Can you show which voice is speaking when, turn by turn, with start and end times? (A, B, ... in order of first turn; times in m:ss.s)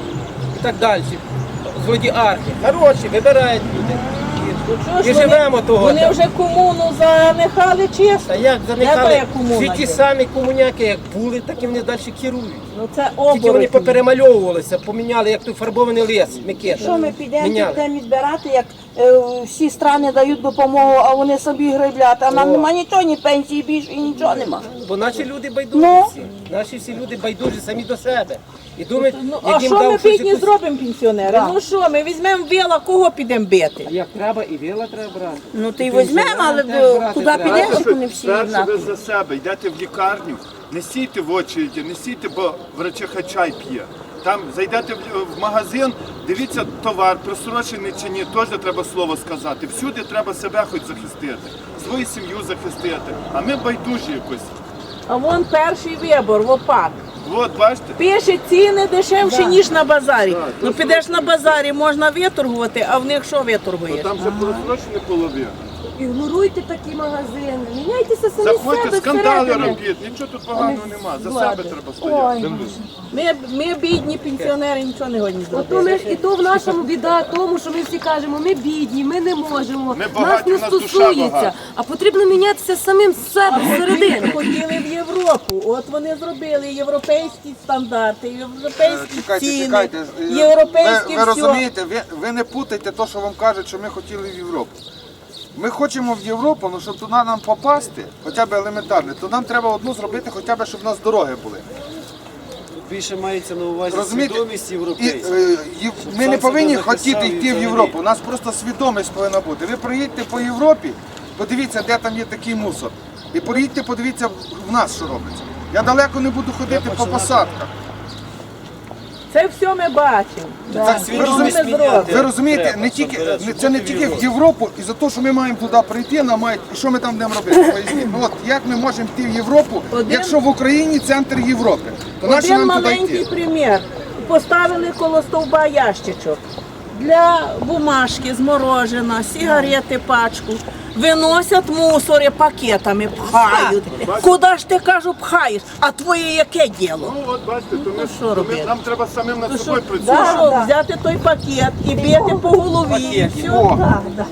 0:00.5-0:06.2 A
0:04.6-0:10.0 B
0:08.3-0:12.6 A
0:12.7-0:14.0 B
0:13.3-0:17.8 A
0:16.8-0:24.6 C
0:22.3-0:22.7 A
0:24.6-0:30.6 A
0:25.8-0:26.1 C
0:29.0-0:33.9 B
0:33.8-0:37.8 A
0:35.6-0:38.4 C
0:37.4-0:54.6 D
0:55.1-0:57.0 B
0:57.2-0:58.0 D
0:58.0-1:04.2 B
1:00.1-1:01.6 D
1:03.9-1:05.6 D
1:06.0-1:09.8 E
1:08.4-1:12.8 D
1:10.5-1:13.1 E
1:13.1-1:16.3 B
1:15.5-1:24.6 E
1:19.9-1:21.6 D
1:23.5-1:31.6 B
1:28.8-1:34.8 F
1:35.5-1:41.7 F
1:42.8-1:45.3 G
1:43.9-1:57.7 F
1:46.0-1:48.0 G
1:56.7-1:57.5 G
1:59.3-2:02.2 B
2:00.8-2:13.3 F
2:01.1-2:04.3 A
2:09.9-2:10.4 B
2:12.2-2:16.4 B
2:16.9-2:27.2 B
2:23.9-2:24.4 D
2:27.0-2:30.6 D
2:27.7-2:28.8 B
2:29.4-2:33.3 B
2:32.0-2:32.3 C
2:32.9-2:33.7 A
2:33.4-2:33.8 F
2:33.6-2:33.9 C